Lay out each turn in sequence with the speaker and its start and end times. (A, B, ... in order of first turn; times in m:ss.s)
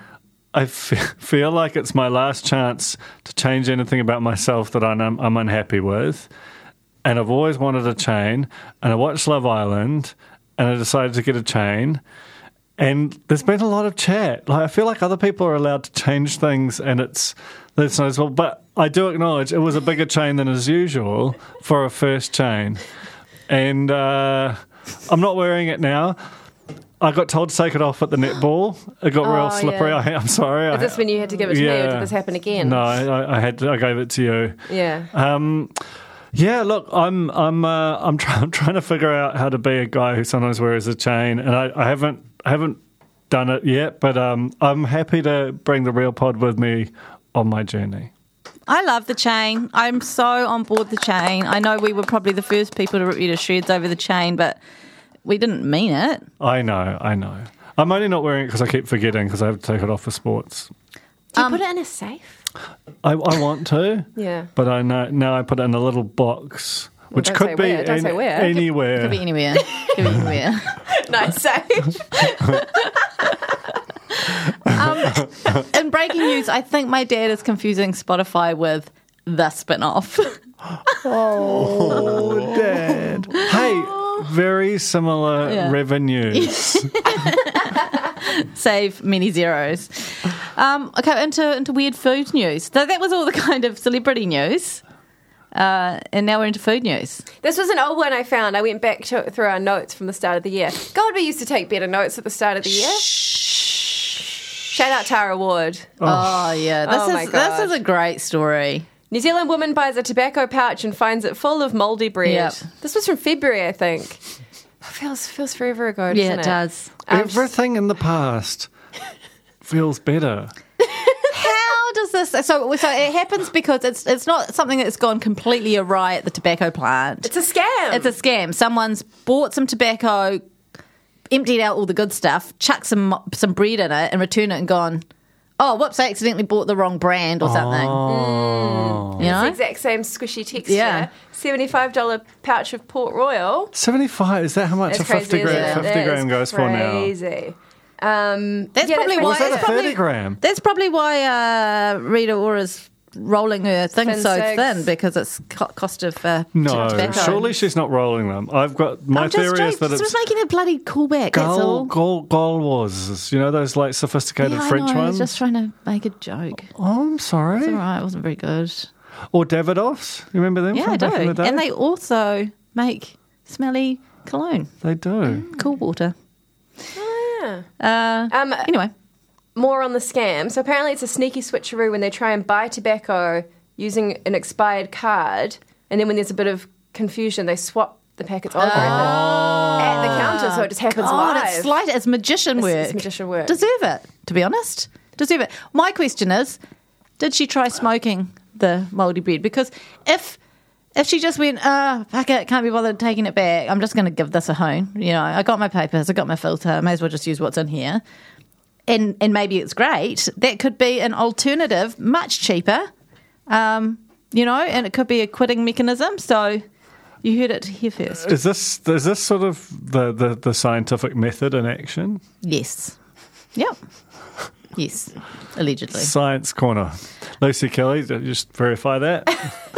0:00.5-0:06.3 A
0:07.0-0:12.0 A
0:12.8-0:22.8 A
0:23.5-0:26.2 A
0:27.0-0:34.6 A
0:29.2-0:30.0 B
0:30.7-0:32.9 B
0:34.7-0:35.1 B
0:35.1-0:35.7 A
0:36.3-0:42.8 A
0:43.3-0:48.1 A
0:48.7-0:54.6 C
0:55.2-0:56.2 C
0:56.4-1:00.7 A
1:01.3-1:02.4 B
1:03.0-1:09.2 A
1:04.2-1:04.5 B
1:07.1-1:08.7 B
1:08.9-1:10.8 C
1:09.5-1:09.9 B
1:10.8-1:13.5 B
1:14.7-1:20.4 C
1:21.0-1:26.9 A
1:21.4-1:23.7 C
1:25.4-1:25.8 C
1:26.3-1:34.8 C
1:35.5-1:37.2 C
1:37.4-1:43.8 B
1:42.7-1:43.6 C
1:44.7-1:46.0 B
1:46.0-1:46.4 A
1:46.0-1:48.9 C
1:46.8-1:47.7 B
1:49.1-1:54.2 B
1:52.2-1:52.6 C
1:54.8-1:57.5 B
1:56.1-1:56.9 C
1:57.1-1:58.7 A
1:59.6-2:00.5 A
2:01.1-2:01.3 B
2:01.3-2:07.3 C
2:07.2-2:08.1 B
2:07.9-2:10.4 C
2:11.3-2:15.0 C
2:15.6-2:18.0 C
2:17.4-2:19.2 A
2:18.0-2:23.7 B
2:19.2-2:19.6 C
2:20.6-2:21.1 C
2:23.7-2:27.1 A
2:24.9-2:29.9 B
2:25.4-2:25.9 C
2:28.8-2:37.5 C
2:29.2-2:30.4 A
2:34.0-2:34.8 B
2:36.5-2:40.1 A
2:36.7-2:37.5 B
2:39.1-2:41.9 C
2:41.3-2:45.3 A
2:44.4-2:46.7 C
2:46.8-2:47.8 A
2:47.6-2:48.9 C
2:49.3-2:51.6 A
2:50.7-2:54.7 C
2:54.8-2:55.5 A
2:55.2-2:56.1 C
2:56.9-2:57.7 B
2:57.8-2:58.9 C
2:58.3-2:58.7 B
2:59.5-3:11.7 B
3:08.6-3:16.6 C
3:08.7-3:10.4 A
3:12.6-3:13.6 B
3:17.2-3:20.4 C
3:20.9-3:28.0 C
3:28.9-3:32.9 C
3:33.5-3:36.6 C
3:37.2-3:38.3 C
3:38.2-3:42.2 A
3:42.4-3:43.0 C
3:44.7-3:46.1 C
3:45.9-3:49.5 A